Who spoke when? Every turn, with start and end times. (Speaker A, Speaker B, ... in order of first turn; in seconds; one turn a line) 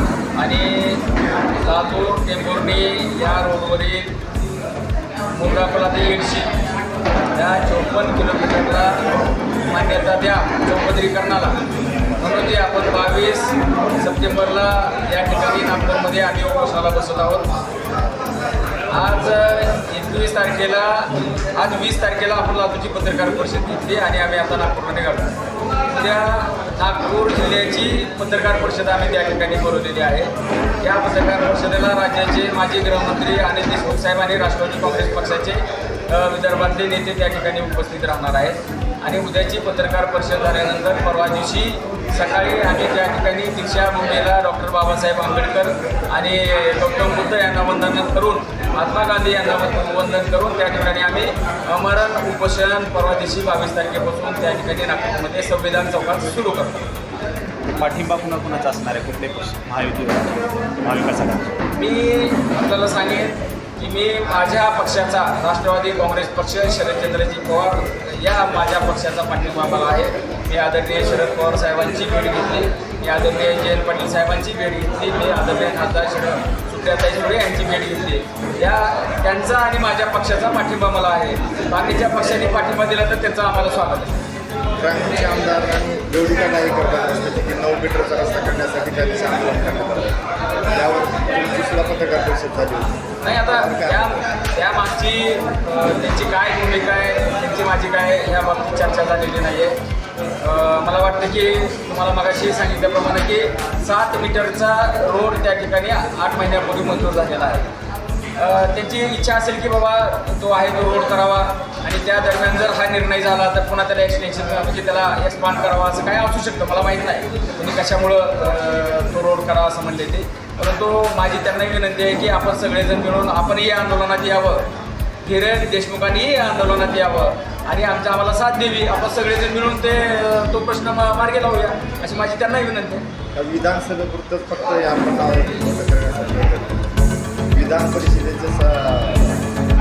Speaker A: 0.4-1.1
Speaker A: 1.6-4.2
Speaker A: 5.3-6.5
Speaker A: 7.3-9.1
Speaker A: 9.7-11.6
Speaker A: 12.2-17.5
Speaker A: 18.9-25.4
Speaker A: 25.9-56.9
Speaker B: 57.8-61.5
Speaker A: 61.7-84.2
Speaker C: 84.8-94.2
Speaker A: 93.2-99.8
Speaker A: 100.4-107.7
Speaker A: 108.3-124.7
Speaker A: 125.2-133.1
Speaker C: 133.3-136.9
Speaker C: 137.5-139.4